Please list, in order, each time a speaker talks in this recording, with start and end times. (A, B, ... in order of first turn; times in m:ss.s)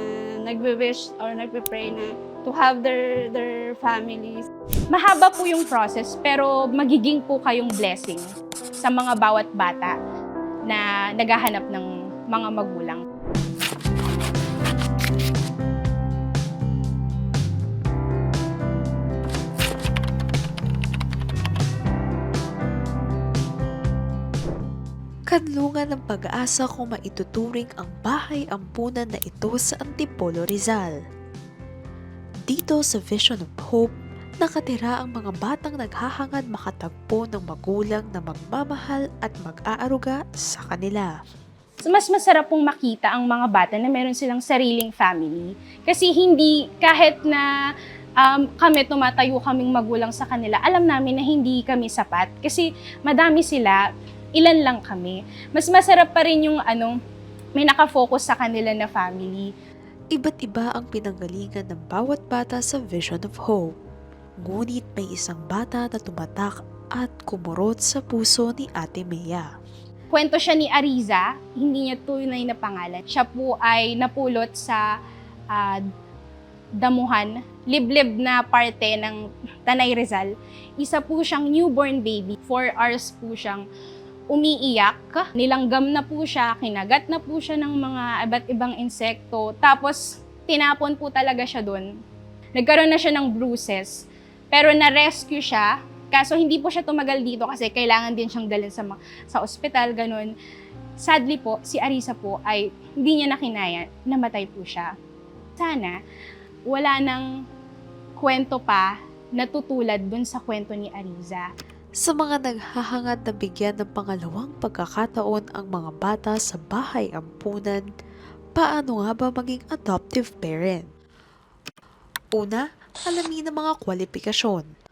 0:00.4-0:04.4 A
0:04.9-0:08.2 B
0:08.8-0:09.9 B
0:10.7-0:13.0 B
0:25.3-0:30.9 C
0:32.5-0:41.1 C
0:41.8-0:47.5 B
0:48.2-0:53.8 B
0:54.4-0:56.9 B
0:57.6-0:59.5 B
1:00.1-1:03.7 C
1:04.4-1:09.5 C
1:10.1-1:14.8 B
1:15.5-1:15.8 B
1:16.8-1:23.6 B
1:24.3-1:31.9 B
1:32.6-1:34.0 B
1:34.5-1:40.3 B
1:41.0-1:44.9 B
1:45.6-1:46.0 B
1:46.7-1:47.2 B
1:48.2-1:51.5 B
1:52.0-1:57.8 C
1:58.6-2:00.9 C
2:02.4-2:04.7 C